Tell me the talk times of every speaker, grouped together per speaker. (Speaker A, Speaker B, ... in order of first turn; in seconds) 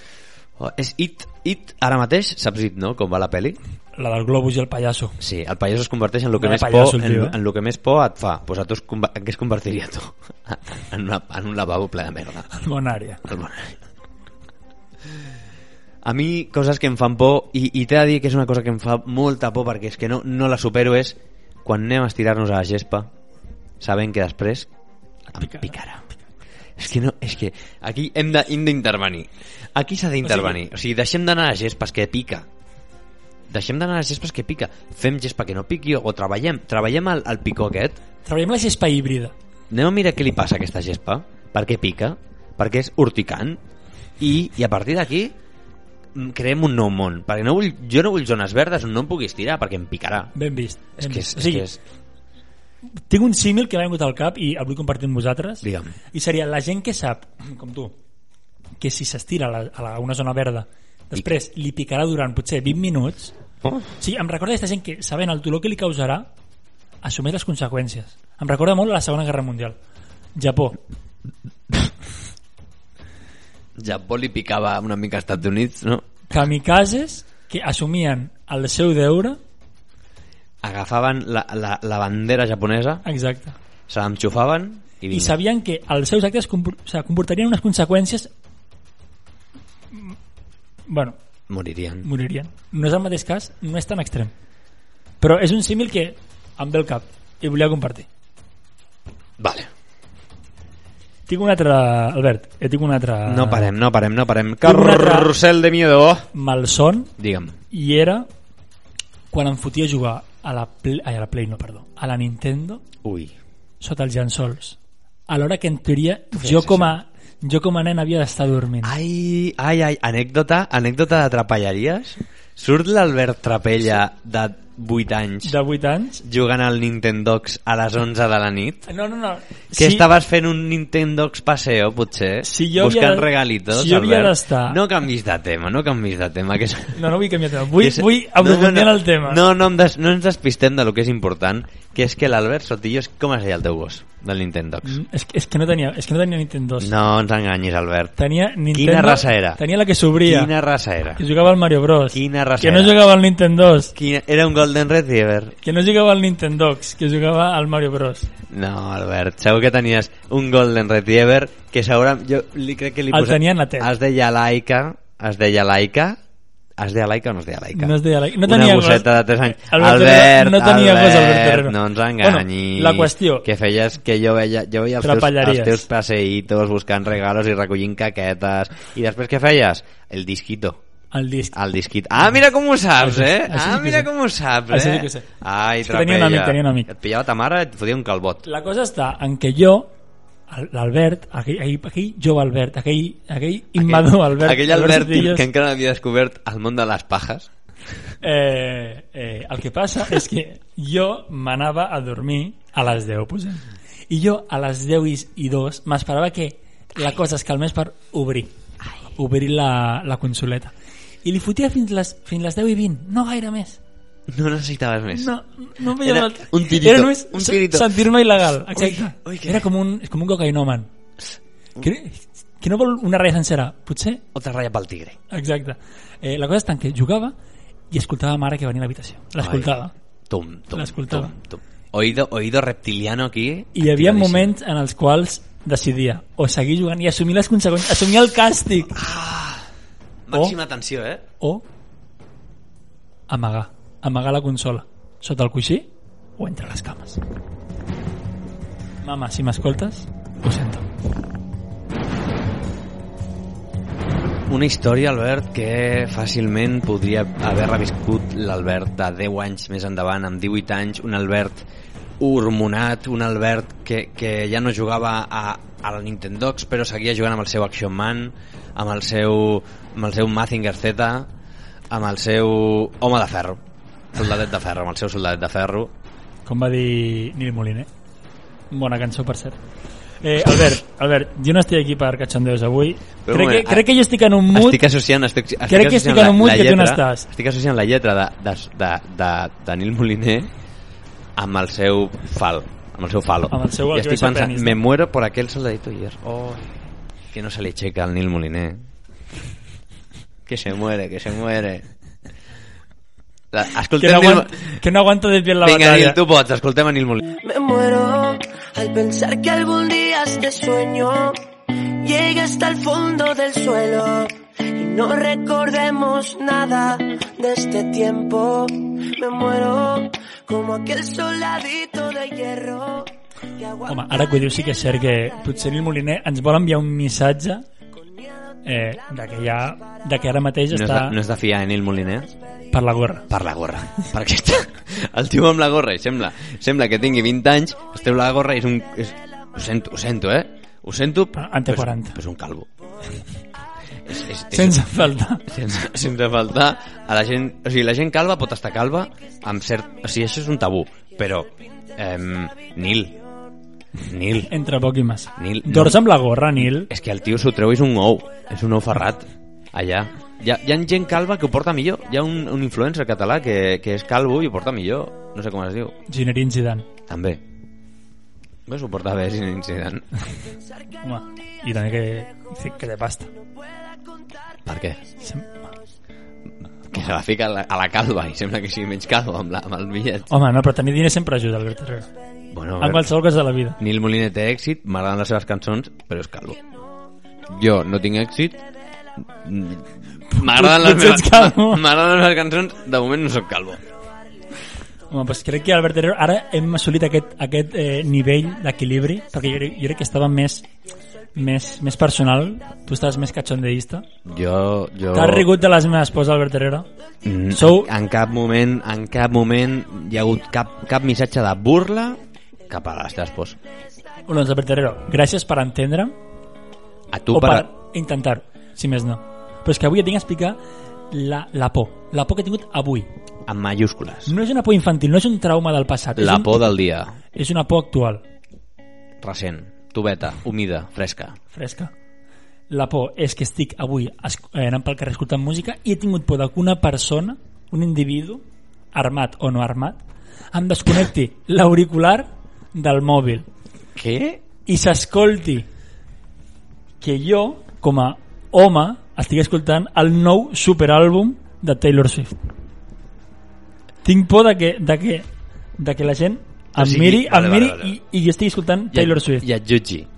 Speaker A: 0.6-3.6, 5.2-12.5, 13.2-13.8, 16.0-23.1, 23.8-24.7, 25.4-26.0, 26.8-32.5, 33.5-38.0, 39.7-43.6, 44.2-45.3, 46.1-50.3, 51.0-51.8, 55.6-56.0, 73.8-76.1, 80.6-83.0, 83.9-85.4, 91.5-92.1, 99.4-99.7, 103.3-106.3, 107.2-107.6, 113.0-113.3, 116.3-117.0, 118.8-125.6, 126.2-128.9, 129.8-137.2, 137.8-145.0, 146.8-148.2, 148.7-149.6, 150.2-151.2, 152.1-153.0, 153.9-155.6, 158.5-166.2, 166.8-180.8, 181.5-188.4, 193.8-197.5, 214.3-215.3, 215.9-218.0, 218.7-219.7, 224.3-225.2, 229.4-234.5, 238.9-239.7, 240.3-241.2, 254.5-261.6, 262.2-271.3, 271.9-273.6, 274.1-275.9, 283.2-283.9, 284.5-290.5, 291.4-296.7, 297.3-298.8, 300.5-301.9, 303.5-304.8, 305.6-307.3, 330.7-332.3, 333.3-342.7, 344.1-353.2, 354.0-354.5, 355.4-356.0, 356.6-366.0, 367.1-367.4, 368.7-370.1, 374.7-375.0, 376.9-380.3, 382.5-383.1, 383.8-386.6, 387.5-388.6, 389.3-393.8, 404.3-405.5, 407.2-413.6, 417.1-417.7, 423.5-424.3, 426.2-427.2, 429.2-431.4, 443.9-444.4, 456.8-458.0, 458.9-460.1
Speaker B: 4.0-5.2, 6.4-7.4, 12.5-13.2, 25.3-25.7, 30.2-30.6, 38.2-39.3, 50.4-51.7, 53.1-58.0, 58.8-63.3, 64.0-66.3, 67.0-69.8, 70.4-70.8, 76.3-79.4, 83.0-83.6, 85.1-88.3, 90.9-91.2, 92.0-94.3, 95.2-98.1, 101.3-103.7, 104.6-105.3, 106.3-107.1, 107.7-108.3, 109.3-112.8, 113.8-114.8, 115.3-119.0, 125.4-126.2, 128.9-130.1, 132.4-134.8, 136.9-139.4, 144.8-146.9, 148.2-150.5, 151.2-153.9, 155.6-158.3, 163.1-163.9, 167.8-173.5, 175.0-175.9, 181.1-181.6, 183.0-184.1, 184.7-185.3, 185.8-186.9, 188.4-189.9, 190.5-195.5, 198.2-208.5, 209.2-213.8, 215.1-220.9, 221.8-224.2, 225.3-227.4, 227.9-229.9, 230.7-231.3, 233.8-239.0, 241.4-241.7, 243.3-247.2, 249.0-250.9, 276.5-277.9, 278.7-279.6, 280.2-284.8, 285.7-287.3, 293.5-294.8, 304.0-306.2, 323.9-327.7, 328.6-331.2, 332.7-333.3, 341.4-342.2, 344.5-345.5, 354.5-356.9, 366.1-366.9, 371.0-373.3, 375.2-375.5, 380.3-382.1, 382.8-383.8, 390.3-391.9, 395.1-400.6, 401.4-404.1, 405.1-406.9, 407.5-407.9, 414.3-416.1, 417.3-420.6, 421.1-423.1, 424.3-426.7, 427.3-428.2, 431.5-431.9, 432.7-443.5, 444.7-445.7, 447.0-452.4, 454.0-455.3, 455.8-459.5
Speaker C: 307.4-323.9